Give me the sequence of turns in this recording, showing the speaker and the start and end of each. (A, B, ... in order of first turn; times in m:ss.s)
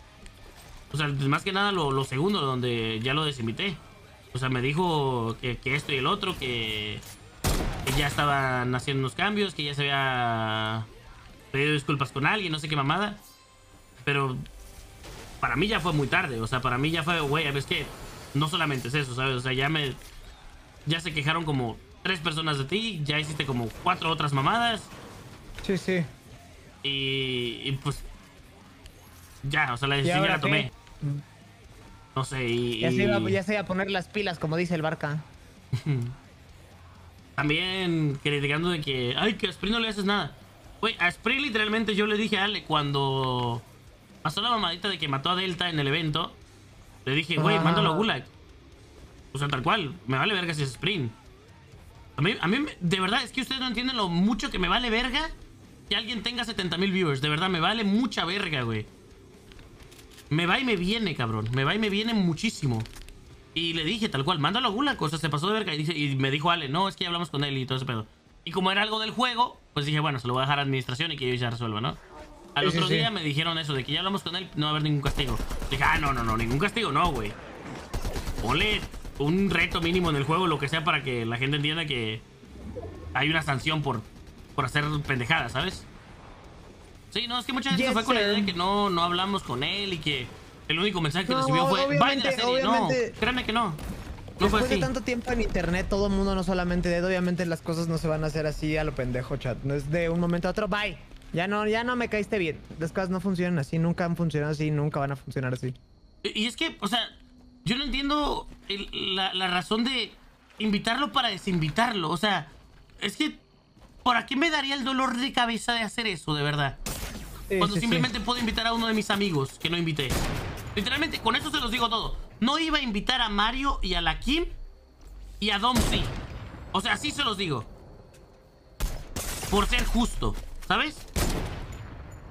0:00.9-0:07.0 A
0:07.9-0:10.9 A
0:11.5-0:13.2 A
0:14.0-0:14.5 A
0:15.4-0:20.0 A
0:20.9-0:24.9 A
0:25.6-0:26.1 B
0:26.8-0:28.1 A
0:29.4-0:30.7 A
0:30.0-0:31.2 B
0:32.2-0:33.4 A
0:32.8-0:35.3 B
0:35.8-0:36.2 A
0:37.4-0:43.7 A
0:44.2-0:46.4 A
0:47.1-0:48.3 A
0:47.4-0:48.1 B
0:49.3-0:51.2 A
0:52.2-0:55.3 A
0:55.9-0:58.9 A
1:00.3-1:02.9 A
1:03.6-1:12.0 A
1:12.6-1:17.4 A
1:12.6-1:13.1 B
1:18.4-1:22.2 A
1:23.1-1:25.9 A
1:27.1-1:33.8 A
1:27.7-1:28.5 B
1:31.3-1:33.2 B
1:34.4-1:34.9 A
1:34.4-1:45.8 B
1:46.2-1:53.4 A
1:54.0-1:56.8 A
1:57.5-1:58.1 B
1:57.6-2:00.2 A
2:00.8-2:04.6 A
2:05.4-2:06.2 A
2:06.7-2:07.7 A
2:09.5-2:11.1 A